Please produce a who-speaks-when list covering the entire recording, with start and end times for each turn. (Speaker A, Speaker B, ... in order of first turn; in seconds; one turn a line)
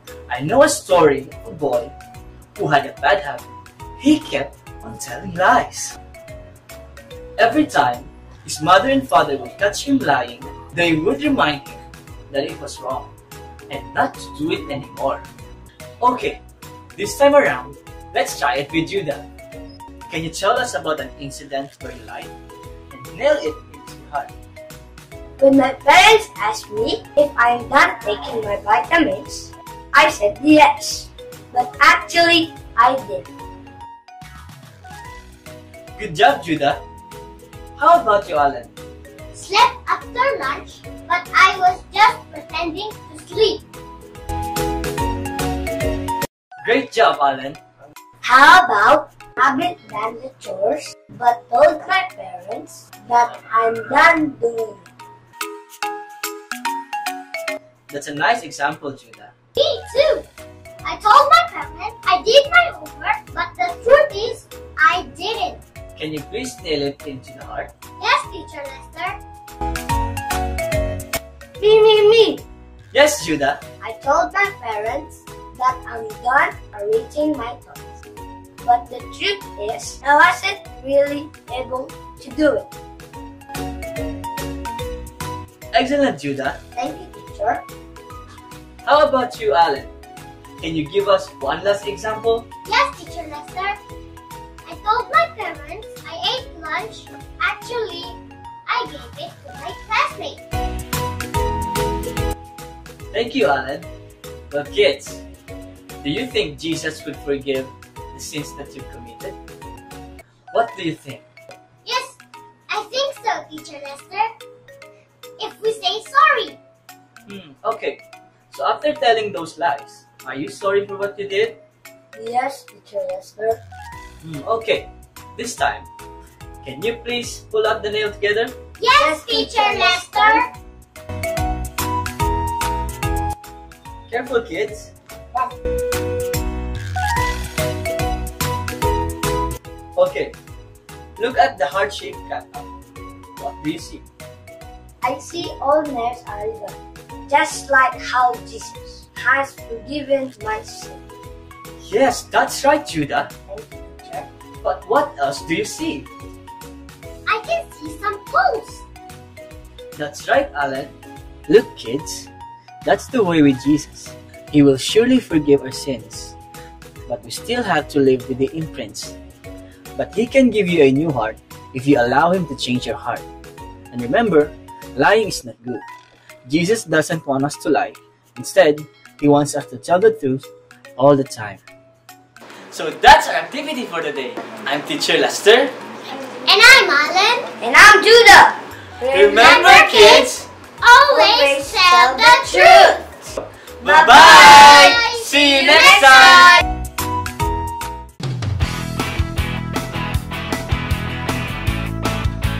Speaker A: 0.3-1.9
Speaker A: 2.5-3.5
Speaker A: 4.0-6.0
Speaker A: 7.4-13.1
Speaker A: 13.7-15.2
Speaker A: 16.0-16.4
Speaker A: 17.0-19.3
Speaker A: 20.1-22.3
Speaker A: 22.9-24.3
Speaker B: 25.4-33.3
Speaker A: 36.0-36.8
Speaker A: 37.8-38.7
Speaker C: 39.3-43.7
Speaker A: 46.6-47.6
Speaker B: 48.2-54.9
Speaker A: 57.9-59.3
Speaker C: 59.6-60.3
Speaker C: 60.8-65.6
Speaker A: 66.0-67.7
Speaker C: 68.0-69.2
Speaker B: 71.6-72.5
Speaker A: 72.9-73.6
Speaker B: 73.8-78.0
Speaker B: 78.6-82.7
Speaker A: 85.7-86.6
Speaker B: 86.8-87.6
Speaker A: 88.8-89.9
Speaker A: 90.6-92.5
Speaker C: 92.7-93.8
Speaker C: 94.7-100.4
Speaker A: 103.1-103.9
Speaker A: 104.5-105.2
Speaker A: 106.0-109.4
Speaker A: 110.5-111.2
Speaker C: 111.8-114.3
Speaker C: 115.4-116.6
Speaker A: 117.3-121.6
Speaker B: 122.2-123.6
Speaker A: 124.2-125.9
Speaker A: 126.6-128.6
Speaker C: 128.8-130.5
Speaker B: 129.0-130.4
Speaker A: 134.1-134.9
Speaker A: 140.0-140.3
Speaker A: 141.2-142.7
Speaker A: 143.4-144.0
Speaker B: 145.0-146.8
Speaker B: 147.3-151.0
Speaker A: 151.8-153.3
Speaker B: 153.5-154.3
Speaker A: 154.6-156.1
Speaker C: 157.3-158.8
Speaker A: 160.0-160.9
Speaker A: 161.5-162.3
Speaker A: 162.8-166.4
Speaker A: 167.1-169.2
Speaker A: 170.0-173.2
Speaker A: 173.9-175.8
Speaker A: 176.5-181.6
Speaker A: 182.7-185.8
Speaker C: 186.4-187.5
Speaker B: 187.6-190.3
Speaker A: 189.1-190.5
Speaker C: 189.4-190.2
Speaker C: 190.8-193.0
Speaker B: 191.1-193.0
Speaker A: 193.8-196.6
Speaker B: 193.8-195.0
Speaker C: 194.1-196.4